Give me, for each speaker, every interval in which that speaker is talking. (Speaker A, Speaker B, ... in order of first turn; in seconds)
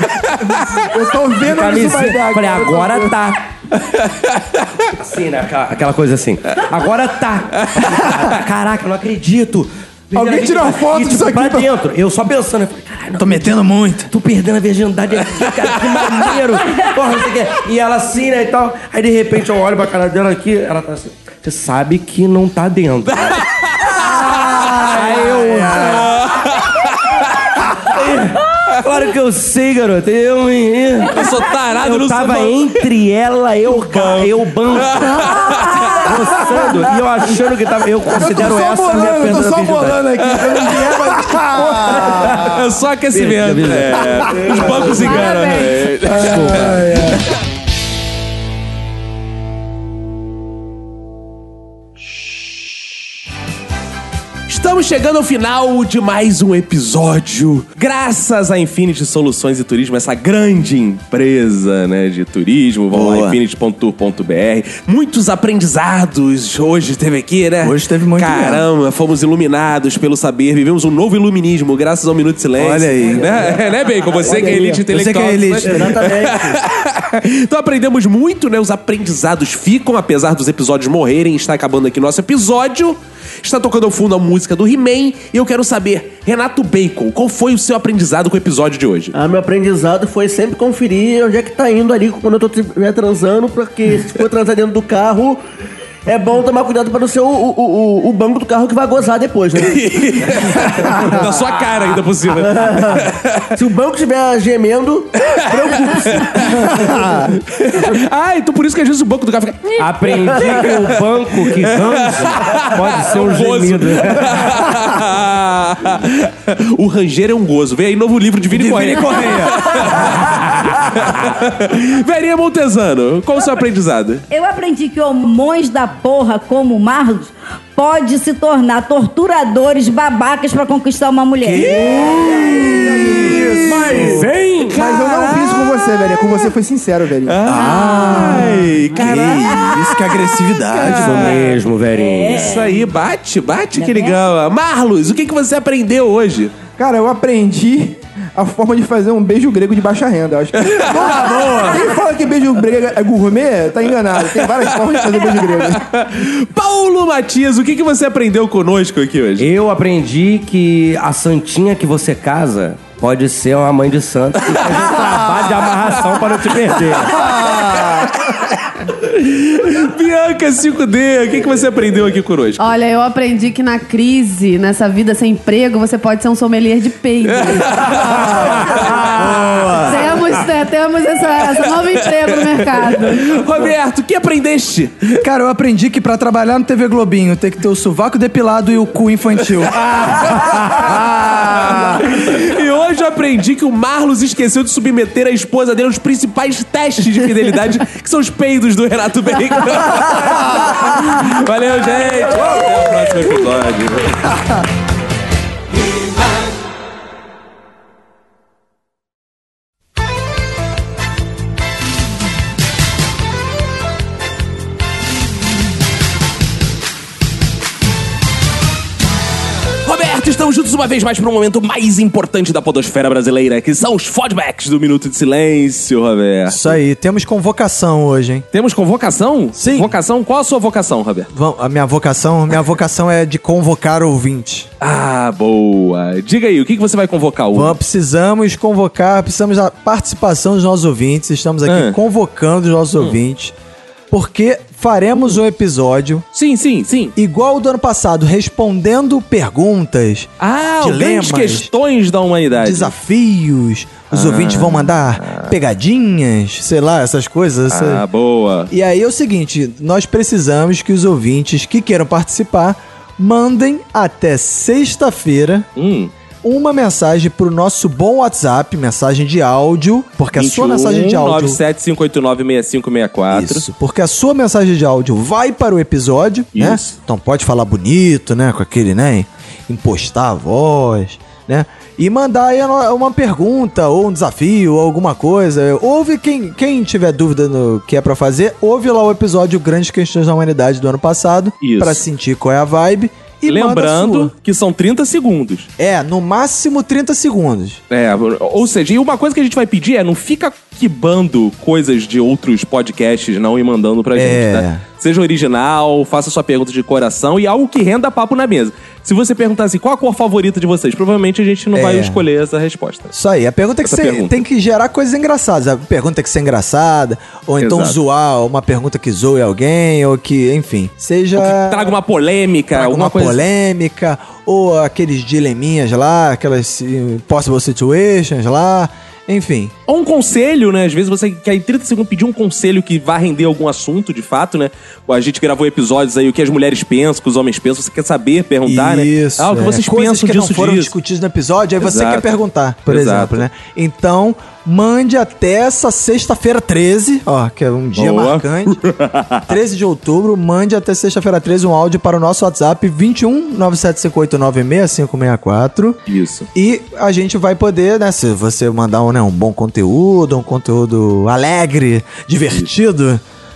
Speaker A: 0.5-3.2, 10.1-11.7, 36.4-36.8, 38.1-42.6, 46.1-47.2, 132.8-137.4, 146.8-155.9
Speaker B: 1.4-3.4, 5.0-13.6, 14.1-23.4, 24.7-26.0, 27.9-31.2, 31.8-35.3, 36.0-40.1, 41.9-42.6, 43.1-45.2, 46.1-47.2, 109.8-114.7, 133.0-134.8, 140.8-142.5, 159.4-167.2
Speaker C: 4.0-4.4, 23.3-24.9, 25.8-27.4, 31.1-32.9, 33.7-36.1, 40.2-41.0, 42.4-46.8, 54.5-89.1, 99.6-103.5, 105.3-124.2, 131.5-136.2, 137.3-139.9, 140.8-141.5, 142.3-146.6, 150.6-151.8, 154.2-159.5, 164.5-165.2, 165.9-172.6, 177.2-180.4, 181.3-185.2, 189.7-204.3, 219.8-226.8, 228.5-231.3, 234.8-237.8, 241.7-242.0, 246.3-247.2, 250.4-252.9, 254.1-255.6, 257.7-258.7, 265.8-266.1, 270.4-273.6, 276.6-277.0, 291.6-292.1, 293.5-295.7, 297.9-313.1, 313.8-314.4, 317.6-318.0, 321.4-323.4, 329.9-340.9, 341.8-342.3, 342.9-343.4, 348.0-349.6, 356.1-356.5
Speaker D: 13.2-14.1, 23.9-26.2, 41.2-42.1, 62.9-63.4, 67.6-68.7, 72.6-73.5, 74.9-76.1, 118.5-119.9, 131.5-134.2, 137.4-141.3, 150.9-151.8, 167.2-168.1, 178.0-180.2, 185.2-192.3, 226.5-228.4, 229.6-230.0, 231.3-234.7, 237.5-243.5, 244.1-246.3, 247.2-250.3, 250.8-251.7, 252.6-258.0, 258.7-265.7, 266.4-271.6, 273.3-294.3, 295.8-297.8, 304.1-304.8, 311.7-312.2, 313.1-322.0, 322.7-329.7, 338.6-348.8, 349.5-356.0, 356.6-363.2
Speaker E: 35.4-36.1, 124.3-133.1, 137.8-138.1, 139.2-139.8, 141.9-142.8, 143.8-144.2
Speaker F: 44.9-45.8, 172.6-178.4, 179.7-183.3
Speaker G: 73.2-74.8, 75.7-76.6, 89.1-95.4, 96.1-99.8, 100.4-101.2, 102.3-106.7